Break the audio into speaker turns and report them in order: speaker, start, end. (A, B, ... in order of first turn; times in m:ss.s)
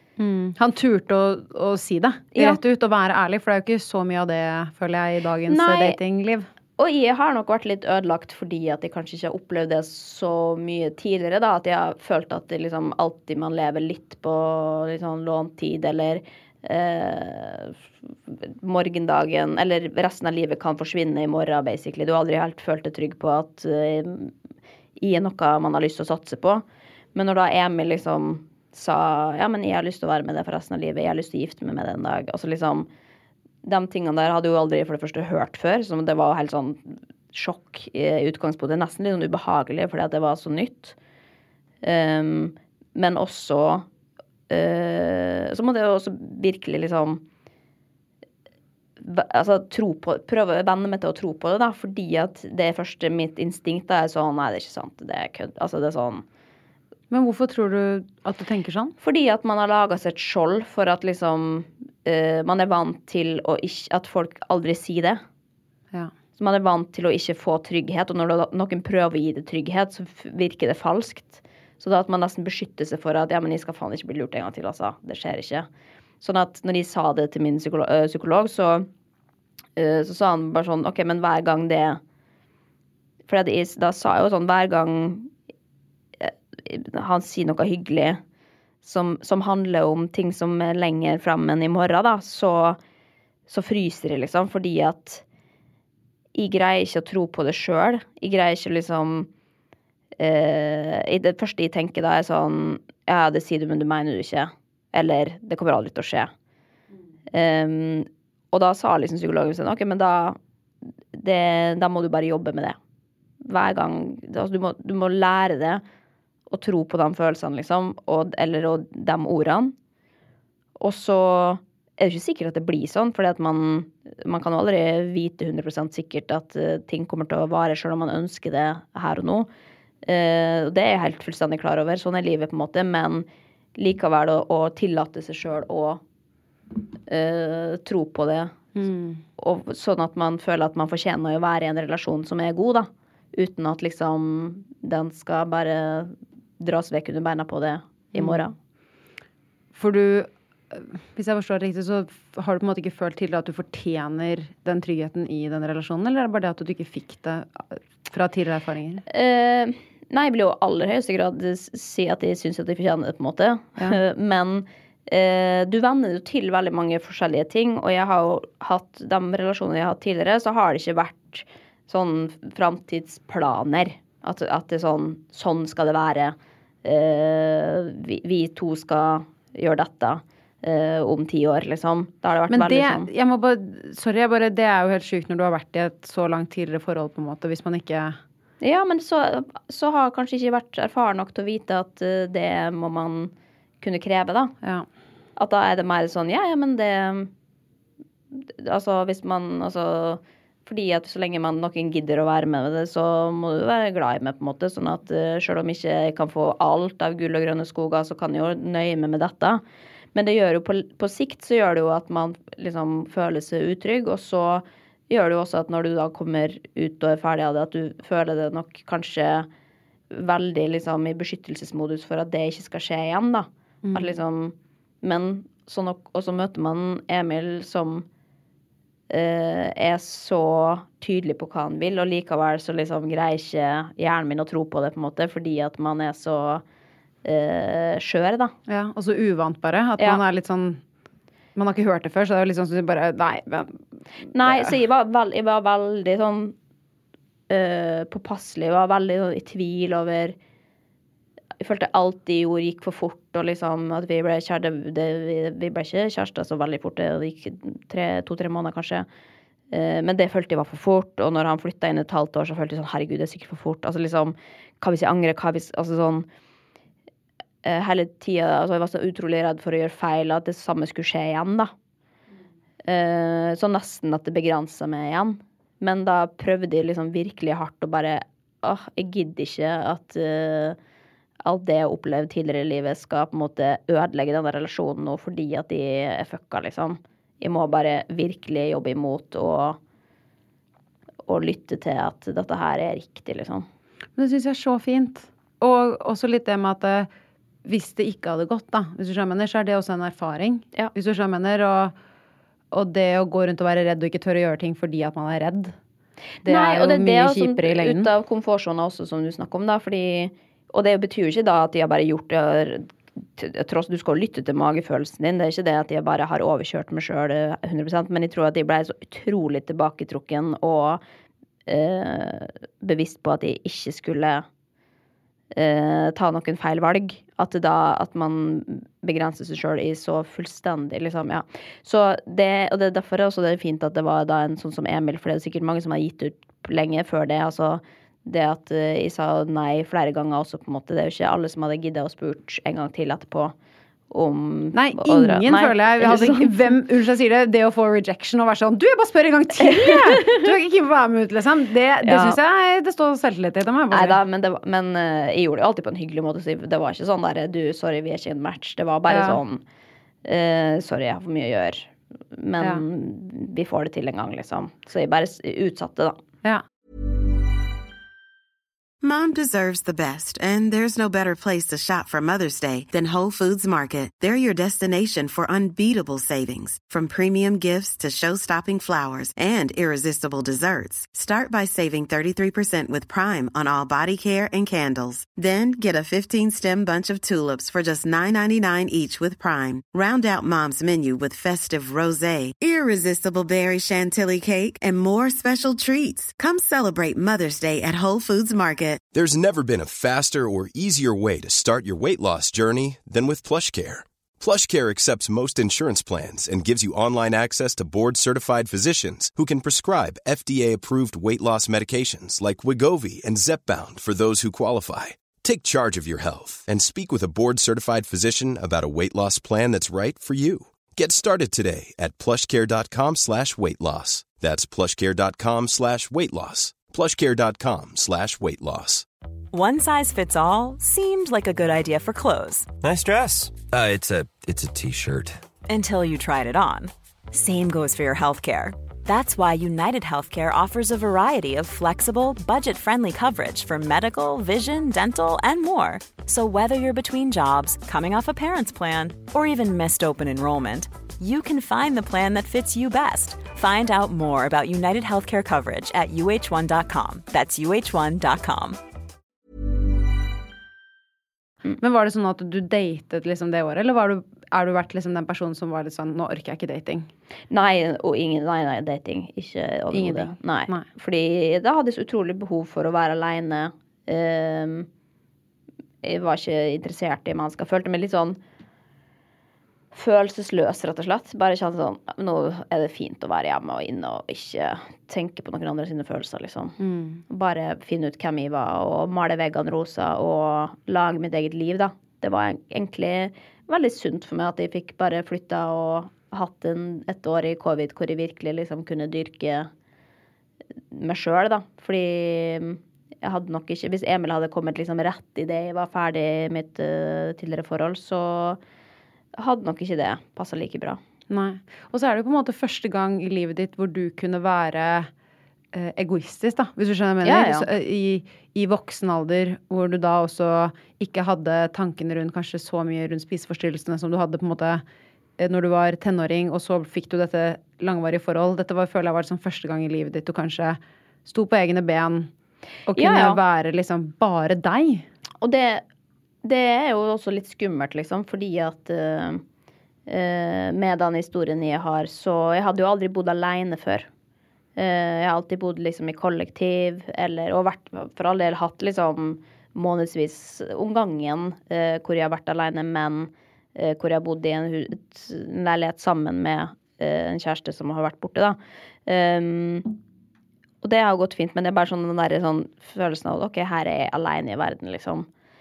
0:00.2-0:06.5 A
0:02.3-0:02.6 B
0:05.5-0:06.0 B
0:06.8-0:24.3 B
0:25.0-0:26.6 B
0:27.1-0:32.9 B
0:33.6-0:41.0 B
0:41.8-0:43.8 B
0:44.5-0:47.2 B
0:49.0-0:56.2 B
0:57.1-0:58.9 A
0:59.0-1:05.2 B
1:06.4-1:15.7 B
1:16.2-1:18.9 B
1:19.8-1:22.0 B
1:23.3-1:25.3 B
1:26.2-1:28.2 B
1:28.8-1:32.8 B
1:33.5-1:35.2 B
1:36.3-1:39.3 B
1:40.2-1:46.3 B
1:47.3-1:50.4 B
1:51.1-1:52.8 B
1:53.4-1:55.8 B
1:56.5-1:59.7 B
2:00.8-2:09.5 B
2:10.0-2:16.0 B
2:17.1-2:18.6 B
2:18.7-2:19.2 A
2:19.4-2:28.5 B
2:28.1-2:28.4 A
2:29.7-2:39.0 A
2:39.1-3:03.1 B
3:02.5-3:08.2 A
3:08.6-3:14.5 B
3:14.6-3:14.9 A
3:15.4-3:17.3 B
3:18.3-3:29.6 B
3:30.1-3:39.5 B
3:40.1-3:48.0 B
3:43.8-3:44.1 A
3:49.1-3:56.6 B
3:57.2-3:58.5 B
3:58.7-4:00.8 A
4:01.6-4:03.8 A
4:04.3-4:06.5 B
4:04.4-4:04.7 A
4:07.5-4:10.4 B
4:11.6-4:19.0 B
4:19.7-4:26.3 B
4:27.6-4:31.7 B
4:32.8-4:40.8 B
4:41.4-4:49.8 B
4:51.3-4:53.7 B
4:54.2-4:57.1 A
4:57.6-5:01.9 A
5:02.7-5:05.8 A
5:06.4-5:08.1 A
5:06.4-5:21.0 B
5:21.6-5:24.4 B
5:25.5-5:43.5 B
5:44.1-5:46.7 B
5:44.7-5:54.2 A
5:49.6-5:50.4 B
5:52.0-5:52.4 B
5:53.9-5:59.6 B
5:59.1-5:59.4 A
6:00.2-6:06.2 B
6:09.0-6:39.0 C
6:39.1-7:09.0 D
7:09.5-7:12.7 E
7:12.8-7:15.4 F
7:15.7-7:38.8 E
7:41.8-7:47.1 A
7:47.5-7:54.9 B
7:49.9-7:50.8 A
7:56.0-7:58.4 B
7:59.9-8:06.8 B
8:06.8-8:07.2 A
8:07.3-8:19.7 B
8:20.9-8:28.6 B
8:29.3-8:31.0 B
8:31.3-8:35.1 A
8:35.7-8:44.8 A
8:37.2-8:37.7 B
8:45.4-8:52.3 A
8:52.9-8:55.0 A
8:52.9-8:53.4 B
8:55.4-8:55.8 B
8:56.4-8:59.4 B
9:00.1-9:04.1 B
9:04.8-9:19.9 B
9:20.8-9:25.3 B